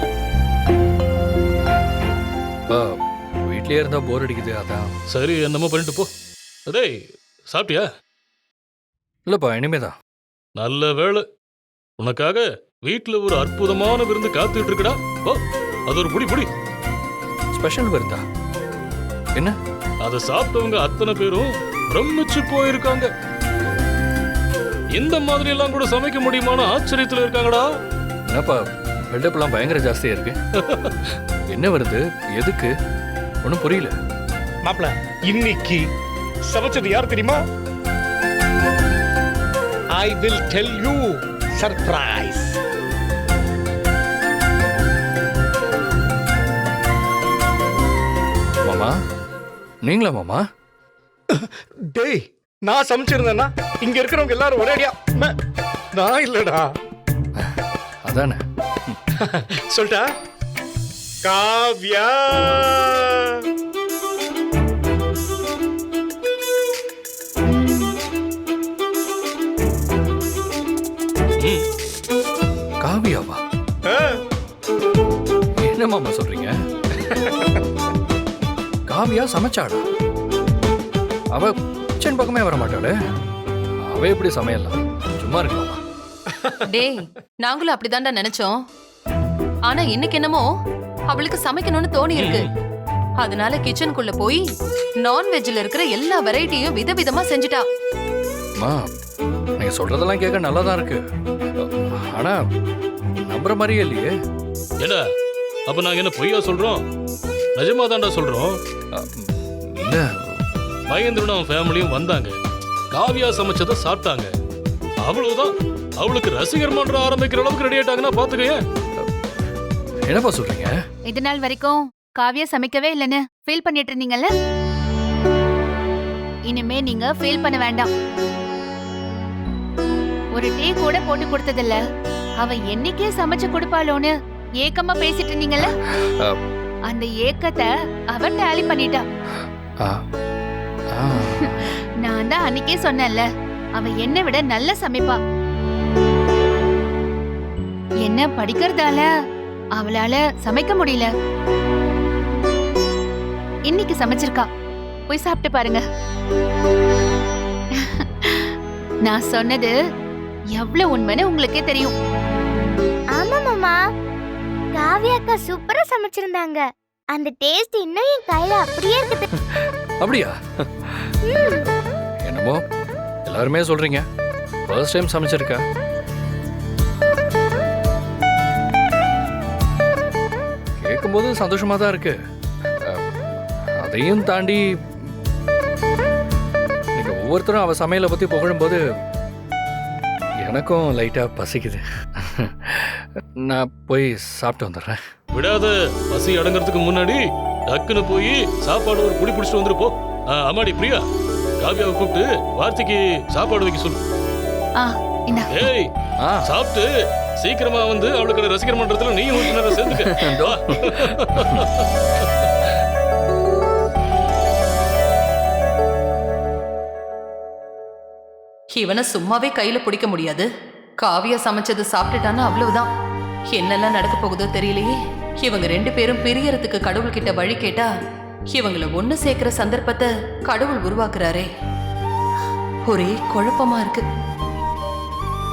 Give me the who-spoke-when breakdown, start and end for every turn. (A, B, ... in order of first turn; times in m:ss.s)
0:02.7-0:04.9 A
0:05.1-0:06.1 B
0:06.7-0:06.9 B
0:07.5-0:07.8 B
0:09.3-0:09.9 A
0:10.6-0:11.2 B
0:12.0-0:16.5 B
0:17.5-0:18.2 A
0:20.0-0:23.1 B
0:24.9-0:27.6 B
0:28.3-0:30.4 A
0:30.6-0:31.2 B
0:31.5-0:32.7 A
0:33.4-0:33.9 A
0:34.6-0:35.8 C
0:36.5-0:37.4 C
0:40.0-0:42.6 C
0:48.6-0:48.9 A
0:49.8-0:50.4 A
0:51.3-0:55.3 C
0:55.9-0:56.7 C
0:57.4-0:59.0 A
0:59.2-1:00.0 C
1:01.2-1:03.4 C
1:07.4-1:08.0 D
1:12.8-1:13.4 A
1:13.9-1:14.2 C
1:15.6-1:16.6 A
1:17.2-1:17.6 C
1:18.9-1:19.8 A
1:21.3-1:22.9 A
1:23.8-1:25.8 A
1:26.7-1:28.6 E
1:29.7-1:30.4 E
1:31.1-1:32.5 E
1:32.1-1:32.5 B
1:33.2-1:34.4 E
1:35.0-1:37.6 E
1:39.6-1:41.0 A
1:41.6-1:42.4 A
1:43.2-1:44.1 A
1:45.7-1:46.8 B
1:47.6-1:48.5 B
1:48.9-1:50.4 A
1:50.9-1:52.3 B
1:52.9-1:54.3 B
1:55.0-1:58.6 B
2:00.0-2:00.7 A
2:01.1-2:04.3 D
2:06.5-2:07.9 D
2:10.4-2:11.8 D
2:12.4-2:15.7 D
2:15.6-2:16.4 A
2:16.9-2:19.0 D
2:19.4-2:20.0 A
2:20.9-2:21.7 A
2:21.2-2:25.2 D
2:28.0-2:29.0 D
2:29.8-2:31.1 D
2:33.7-2:34.5 D
2:35.1-2:35.8 D
2:37.8-2:39.7 D
2:40.5-2:41.9 D
2:43.1-2:43.9 F
2:44.7-2:49.3 F
2:49.3-2:51.7 A
2:51.2-2:51.7 F
2:52.2-2:52.6 A
2:53.3-2:54.0 A
2:54.7-2:55.6 A
3:00.8-3:02.2 A
3:03.8-3:05.1 A
3:07.0-3:08.8 A
3:10.4-3:15.0 A
3:15.3-3:17.2 B
3:17.7-3:21.0 B
3:21.6-3:24.0 B
3:24.8-3:25.5 D
3:25.5-3:25.9 B
3:26.2-3:26.5 A
3:26.4-3:26.9 B
3:27.4-3:32.5 B
3:29.9-3:31.6 A
3:38.7-3:40.5 E
3:41.0-3:42.9 E
3:43.5-3:47.9 E
3:48.5-3:51.5 E
3:52.9-3:54.0 E